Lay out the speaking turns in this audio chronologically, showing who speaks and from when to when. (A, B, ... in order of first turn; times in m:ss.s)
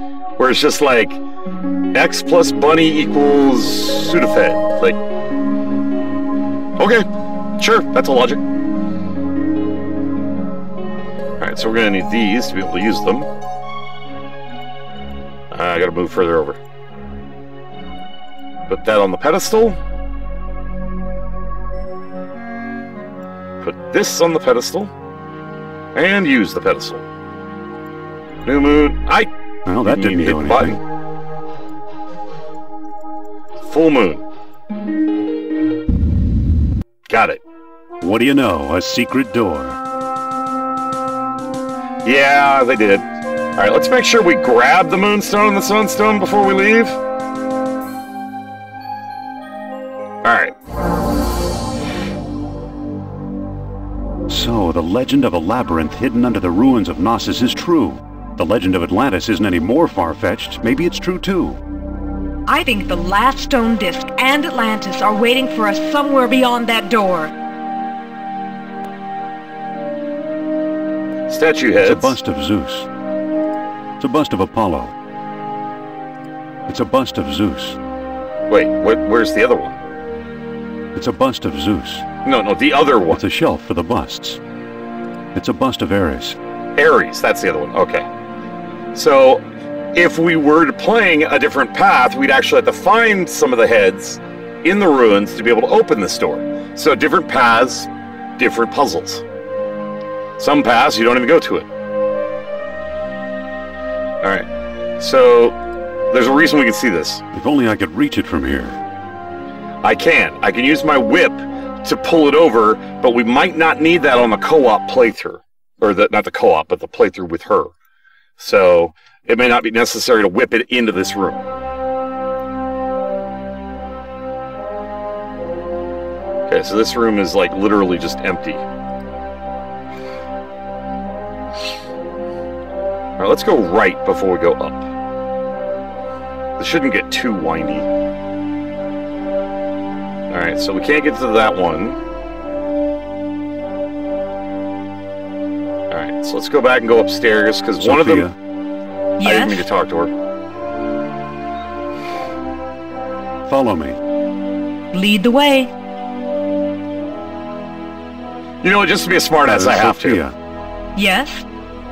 0:00.4-0:01.2 A
0:01.9-0:05.0 A
0:06.8-0:08.4 A
0:11.4-0:13.3 A
0:15.5-0:16.6 A
0:18.7-0:19.8 A
0:23.6-0:24.9 A
0:25.9-0:27.0 A
0:28.4-0:29.3 A
0:29.6-0:30.8 B
0:29.8-0:30.8 A
0:33.6-0:34.2 A
0:37.1-0:37.4 A
0:38.0-0:39.8 B
0:42.0-0:47.0 A
0:50.2-0:50.5 A
0:54.3-1:01.6 B
1:02.5-1:07.3 C
1:11.3-1:12.2 A
1:11.8-1:12.9 B
1:14.0-1:14.9 B
1:16.7-1:17.8 B
1:18.5-1:19.8 A
1:20.9-1:22.0 B
1:22.2-1:23.2 A
1:23.1-1:24.4 B
1:25.3-1:26.4 B
1:26.8-1:28.1 A
1:28.9-1:39.2 A
1:40.4-1:41.7 A
1:44.2-1:44.5 A
1:45.0-1:45.6 A
1:46.1-1:47.2 A
1:47.3-1:48.8 B
1:49.8-1:57.7 A
1:58.4-2:01.5 A
2:06.5-2:08.6 A
2:13.2-2:14.9 A
2:16.6-2:17.9 A
2:20.3-2:22.0 A
2:25.9-2:28.3 A
2:27.8-2:28.3 B
2:29.2-2:29.6 C
2:29.2-2:30.1 A
2:33.5-2:34.0 B
2:34.9-2:35.7 C
2:38.6-2:40.2 A
2:39.4-2:40.3 B
2:41.0-2:41.4 C